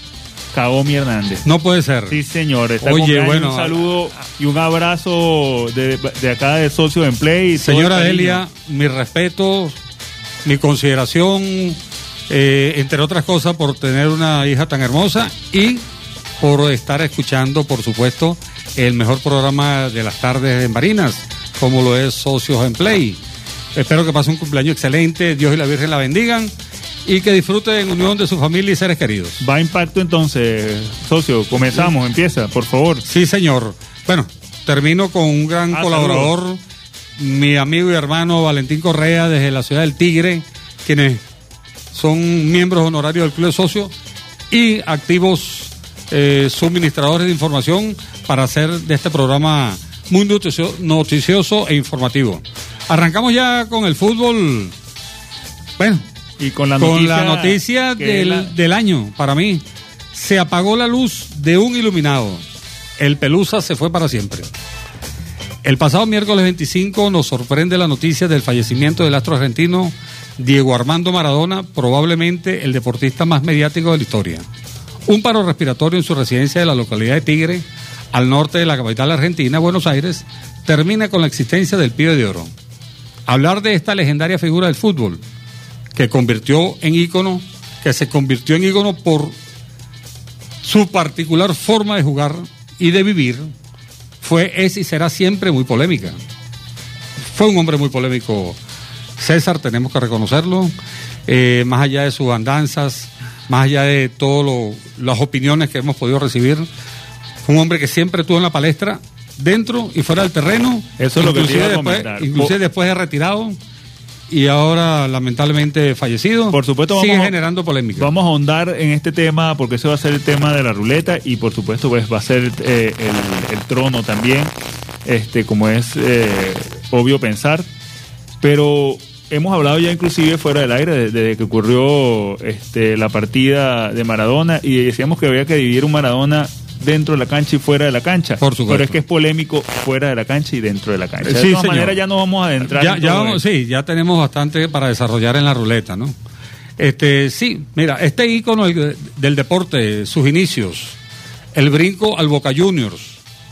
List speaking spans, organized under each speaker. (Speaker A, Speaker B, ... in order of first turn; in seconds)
Speaker A: 0.5-1.4, 2.1-8.4, 29.4-33.0, 35.7-36.3, 56.4-58.5, 111.0-112.5, 116.5-117.4, 118.0-124.5, 125.0-127.7, 128.4-143.4
Speaker B: 1.4-2.2, 2.8-3.8, 7.5-9.8, 10.4-15.8, 16.4-23.2, 23.7-26.5, 27.0-29.4, 33.0-36.6, 37.2-41.2, 41.9-43.9, 44.5-54.7, 55.8-56.0, 56.8-62.4, 63.0-64.5, 65.6-74.5, 75.1-82.5, 83.3-85.2, 85.9-89.4, 90.6-93.5, 94.2-96.2, 97.2-98.6, 99.2-100.7, 101.3-106.7, 107.4-113.6, 114.3-118.1, 138.4-139.0, 141.2-142.0, 142.6-146.2, 146.8-151.0, 151.5-153.2